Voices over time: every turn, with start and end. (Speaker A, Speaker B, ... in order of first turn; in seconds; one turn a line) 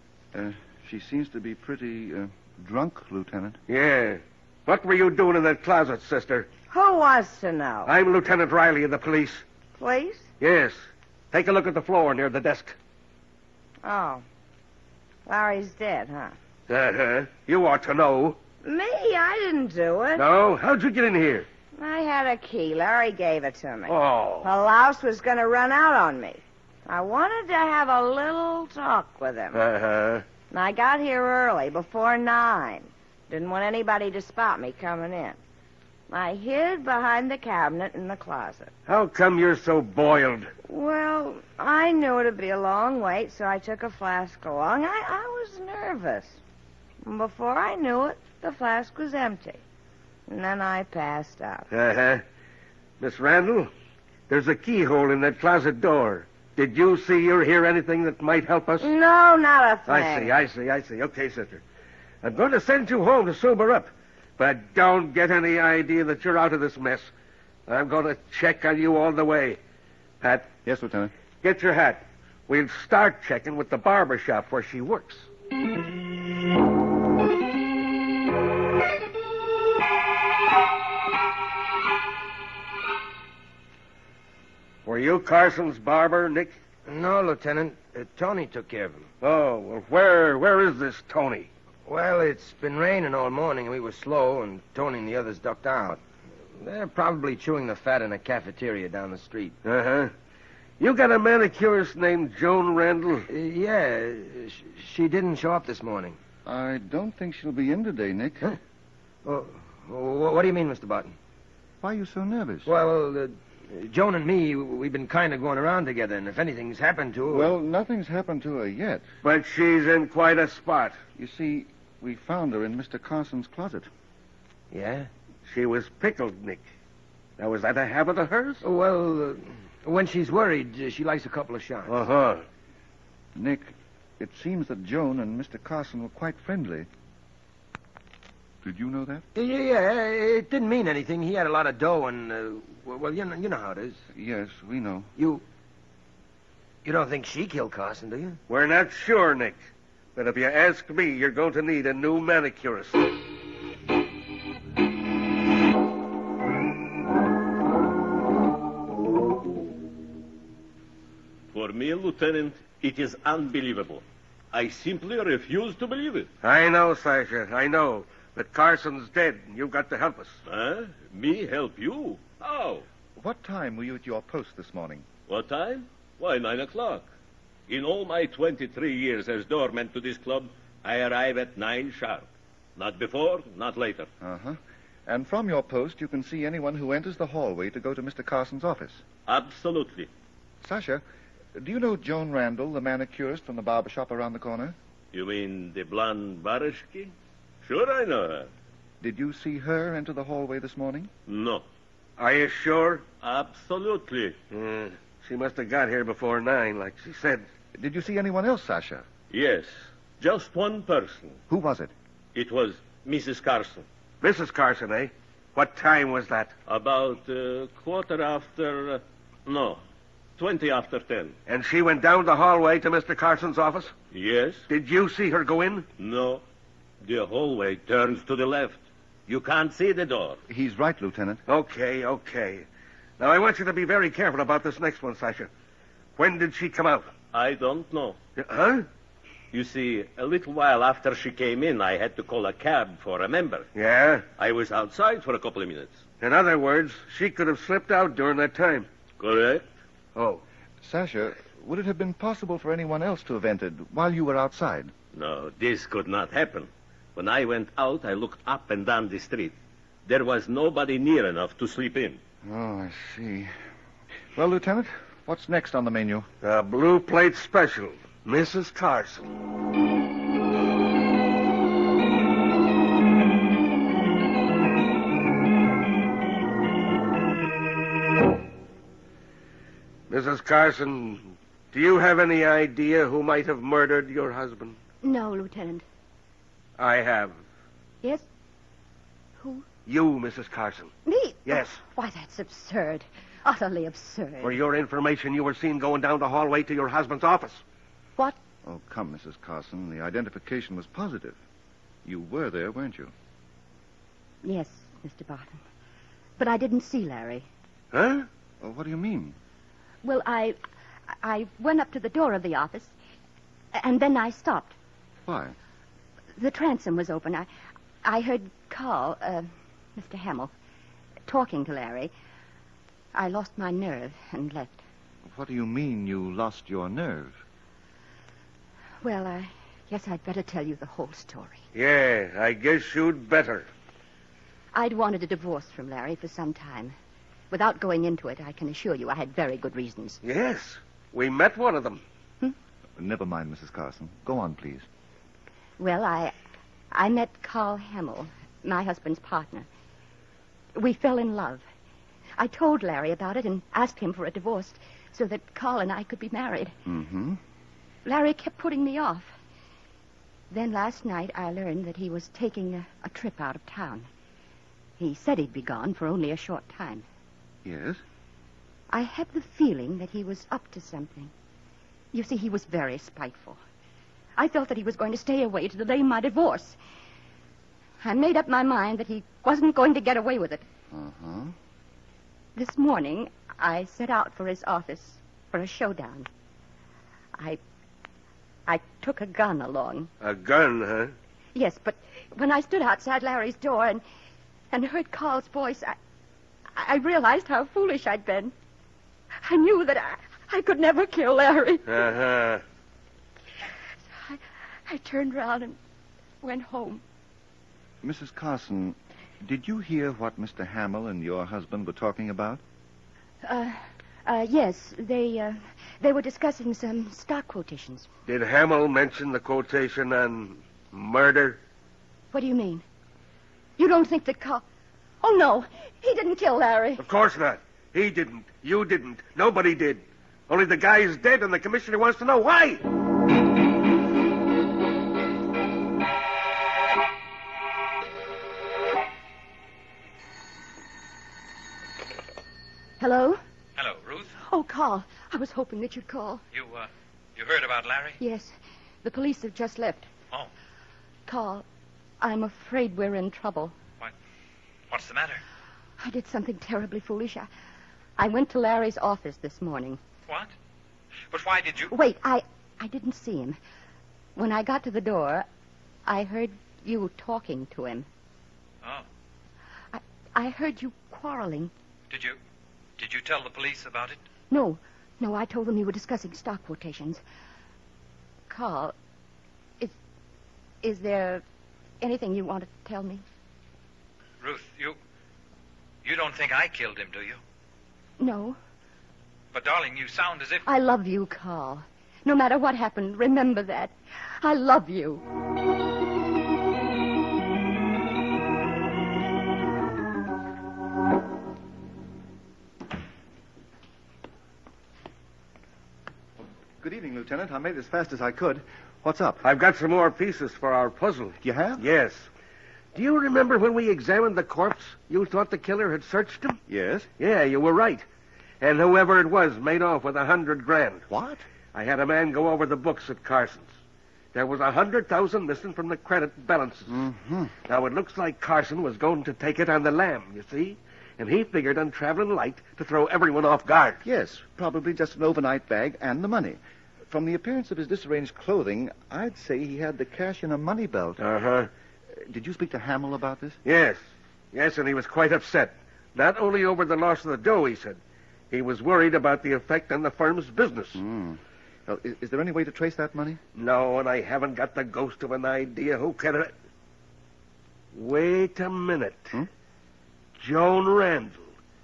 Speaker A: 0.3-3.6
Speaker B: 3.7-6.5
Speaker C: 6.7-7.9
Speaker B: 7.9-9.4
Speaker C: 9.8-10.3
Speaker B: 10.4-12.8
Speaker C: 13.8-14.2
Speaker C: 15.3-16.4
Speaker B: 16.7-18.4
Speaker C: 18.6-20.2
Speaker B: 20.1-21.5
Speaker C: 21.8-29.6
Speaker B: 23.9-24.5
Speaker B: 29.5-30.2
Speaker C: 30.5-35.4
Speaker C: 36.1-38.7
Speaker B: 38.9-40.5
Speaker C: 40.7-46.4
Speaker C: 47.0-49.6
Speaker C: 50.3-51.7
Speaker B: 51.7-52.2
Speaker B: 53.0-53.7
Speaker B: 54.3-58.9
Speaker C: 58.8-60.3
Speaker B: 59.9-61.6
Speaker B: 62.2-67.1
Speaker B: 67.7-69.6
Speaker B: 70.2-70.5
Speaker A: 70.7-71.1
Speaker B: 71.4-75.3
Speaker B: 84.8-86.6
Speaker D: 86.9-89.1
Speaker B: 89.2-91.5
Speaker D: 91.9-96.0
Speaker D: 96.5-99.6
Speaker B: 99.6-100.1
Speaker B: 100.8-103.3
Speaker D: 103.3-106.2
Speaker A: 106.5-108.5
Speaker D: 109.2-111.2
Speaker A: 111.8-112.7
Speaker D: 112.7-117.5
Speaker A: 117.3-119.0
Speaker B: 119.2-121.0
Speaker A: 121.2-123.9
Speaker D: 124.7-125.1
Speaker B: 125.5-126.6
Speaker B: 127.4-128.6
Speaker D: 128.6-132.0
Speaker B: 131.9-132.4
Speaker A: 133.3-136.9
Speaker A: 138.6-139.2
Speaker D: 139.3-144.0
Speaker A: 144.1-145.1
Speaker D: 145.2-145.4
Speaker D: 146.8-148.4
Speaker B: 148.5-149.6
Speaker B: 150.2-153.1
Speaker E: 161.5-166.3
Speaker B: 166.4-170.4
Speaker E: 170.5-172.8
Speaker A: 173.2-175.1
Speaker E: 175.3-177.1
Speaker E: 177.7-182.2
Speaker E: 182.8-184.1
Speaker A: 184.2-189.0
Speaker E: 189.3-190.1
Speaker A: 190.6-191.0
Speaker A: 191.6-194.8
Speaker E: 195.1-197.1
Speaker E: 197.6-198.5
Speaker A: 199.0-201.1
Speaker E: 201.3-201.6
Speaker B: 202.2-203.1
Speaker E: 203.2-204.4
Speaker B: 204.5-207.4
Speaker A: 207.8-209.1
Speaker E: 209.3-211.4
Speaker A: 211.5-211.9
Speaker E: 212.3-213.8
Speaker B: 214.2-216.5
Speaker E: 216.7-219.8
Speaker E: 220.4-221.3
Speaker B: 221.5-223.9
Speaker E: 224.1-224.6
Speaker B: 224.7-225.9
Speaker E: 226.0-226.4
Speaker E: 227.0-230.4
Speaker A: 230.5-231.4
Speaker B: 231.5-232.7
Speaker B: 233.2-235.5
Speaker B: 236.2-237.1
Speaker E: 237.3-238.2
Speaker B: 238.4-238.9
Speaker E: 239.5-243.7
Speaker B: 243.8-244.3
Speaker E: 244.4-246.0
Speaker B: 246.2-248.9
Speaker E: 249.2-249.7
Speaker B: 250.2-250.4
Speaker A: 250.8-254.9
Speaker E: 255.1-259.5
Speaker E: 260.1-262.2
Speaker A: 262.4-263.5
Speaker A: 264.4-266.3
Speaker B: 266.4-269.3
Speaker B: 280.1-284.8
Speaker F: 285.0-285.8
Speaker B: 286.8-287.4
Speaker F: 289.4-289.6
Speaker B: 289.9-290.9
Speaker F: 291.1-294.6
Speaker B: 291.5-291.8
Speaker B: 294.4-297.6
Speaker A: 298.6-301.4
Speaker A: 302.1-303.1
Speaker F: 304.4-305.6
Speaker F: 306.4-307.5
Speaker B: 307.9-308.3
Speaker A: 308.6-309.4
Speaker F: 310.0-310.6
Speaker F: 311.2-312.9
Speaker F: 313.7-314.8
Speaker A: 315.3-315.6
Speaker F: 316.4-317.5
Speaker F: 318.0-320.5
Speaker F: 321.3-322.1
Speaker F: 323.1-324.8
Speaker A: 325.3-327.4
Speaker F: 329.0-331.6
Speaker B: 331.7-333.7
Speaker F: 334.7-336.9
Speaker F: 337.5-340.2
Speaker B: 340.2-342.0
Speaker A: 343.0-344.9
Speaker F: 345.8-346.3
Speaker F: 346.9-349.7
Speaker F: 350.8-351.6
Speaker F: 352.4-356.8
Speaker A: 356.9-357.4
Speaker F: 358.1-359.3
Speaker F: 360.5-364.1
Speaker F: 365.0-367.1
Speaker A: 367.6-368.0
Speaker F: 368.9-371.3
Speaker F: 372.1-373.6
Speaker F: 374.4-376.8
Speaker F: 378.0-380.6
Speaker A: 380.9-381.5
Speaker F: 382.6-386.3
Speaker F: 388.7-390.1
Speaker B: 390.2-391.1
Speaker F: 391.6-394.0
Speaker F: 394.7-395.9
Speaker F: 396.8-398.5
Speaker F: 399.4-402.0
Speaker B: 401.9-402.6
Speaker F: 404.1-405.8
Speaker F: 406.4-407.0
Speaker A: 408.0-412.6
Speaker F: 413.4-418.1
Speaker B: 418.3-421.6
Speaker F: 422.3-422.9
Speaker F: 423.8-424.6
Speaker F: 425.2-427.0
Speaker B: 427.0-432.8
Speaker F: 443.0-443.4
Speaker G: 443.8-444.3
Speaker F: 444.4-446.4
Speaker G: 446.5-448.2
Speaker F: 448.2-450.1
Speaker F: 451.3-451.6
Speaker F: 452.2-453.8
Speaker G: 454.9-455.4
Speaker F: 456.0-457.5
Speaker F: 458.2-460.0
Speaker G: 461.3-461.9
Speaker F: 461.9-463.6
Speaker F: 464.4-465.5
Speaker F: 466.1-468.1
Speaker F: 469.9-471.7
Speaker G: 472.1-472.4
Speaker G: 473.0-474.2
Speaker F: 474.5-477.2
Speaker F: 478.5-478.9
Speaker F: 480.8-481.4
Speaker F: 482.0-483.2
Speaker G: 484.4-485.0
Speaker G: 486.0-487.4
Speaker F: 488.2-488.6
Speaker G: 489.5-490.7
Speaker F: 490.7-495.2
Speaker A: 506.8-509.4
Speaker B: 509.4-512.3
Speaker A: 511.4-511.9
Speaker B: 513.0-516.6
Speaker A: 516.7-517.1
Speaker B: 517.2-518.0
Speaker B: 518.6-521.0
Speaker A: 521.1-521.5
Speaker B: 521.7-523.7
Speaker B: 524.3-527.0
Speaker A: 526.9-527.5
Speaker B: 527.7-534.0
Speaker A: 534.0-541.2
Speaker B: 541.2-541.7
Speaker A: 542.1-543.6
Speaker B: 543.6-544.0
Speaker B: 544.5-548.0
Speaker B: 548.5-551.0
Speaker A: 551.0-553.4
Speaker B: 553.5-556.5
Speaker B: 557.9-559.4
Speaker B: 560.4-561.5